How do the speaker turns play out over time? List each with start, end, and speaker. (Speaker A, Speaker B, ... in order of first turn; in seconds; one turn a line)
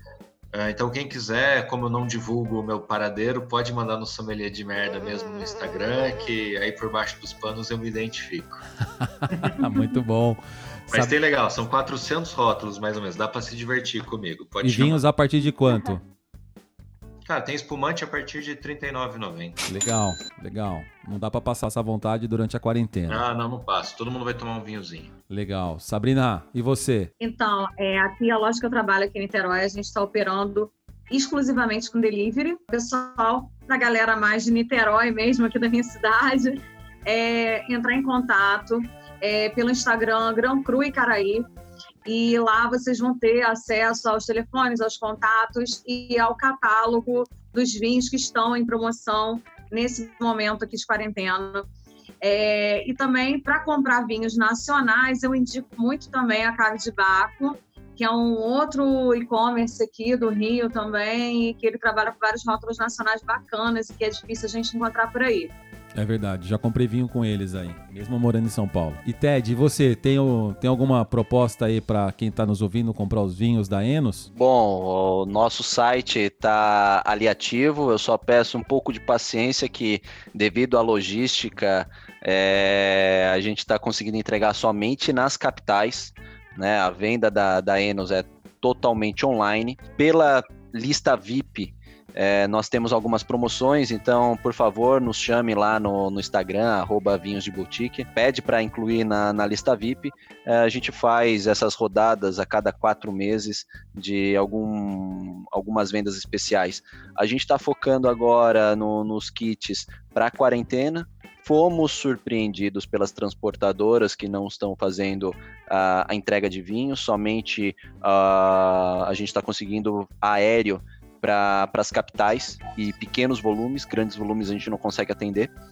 Speaker A: 0.5-8.6
Speaker B: 9.0-11.2
Speaker A: 10.9-15.0
Speaker B: 14.6-16.0
Speaker A: 17.2-19.6
Speaker B: 19.6-23.2
Speaker A: 23.1-25.1
Speaker B: 25.3-27.1
Speaker C: 27.2-41.5
Speaker C: 42.0-51.6
Speaker C: 52.2-65.5
Speaker B: 65.9-74.3
Speaker D: 74.3-125.5